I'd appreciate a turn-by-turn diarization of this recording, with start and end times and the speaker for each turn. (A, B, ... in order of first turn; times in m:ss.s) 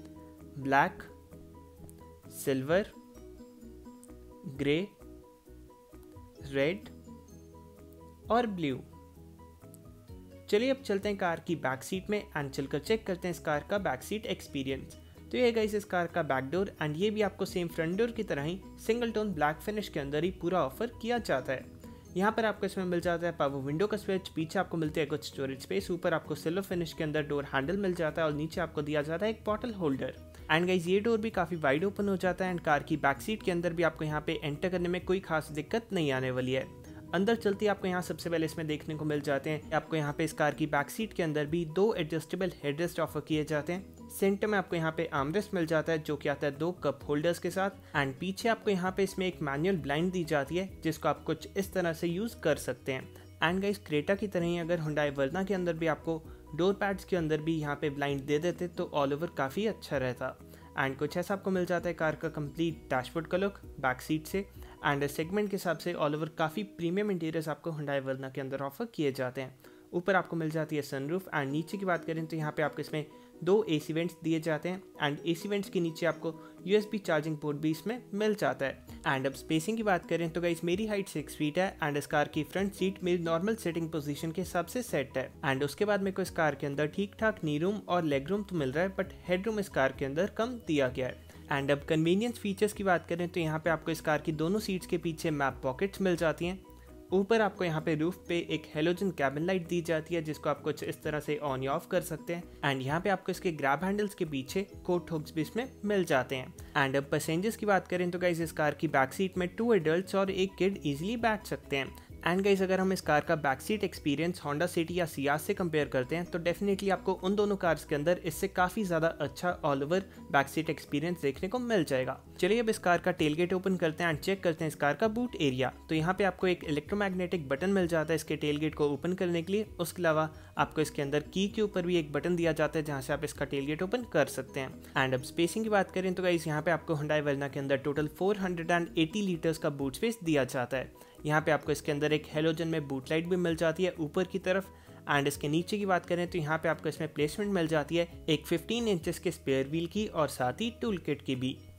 0:00.6-0:01.1 A
0:02.3-0:02.9 A
0:04.4-0:05.0 A
0:06.4-0:06.9 A
0:08.3-0:08.9 A
0:10.5-2:31.6 A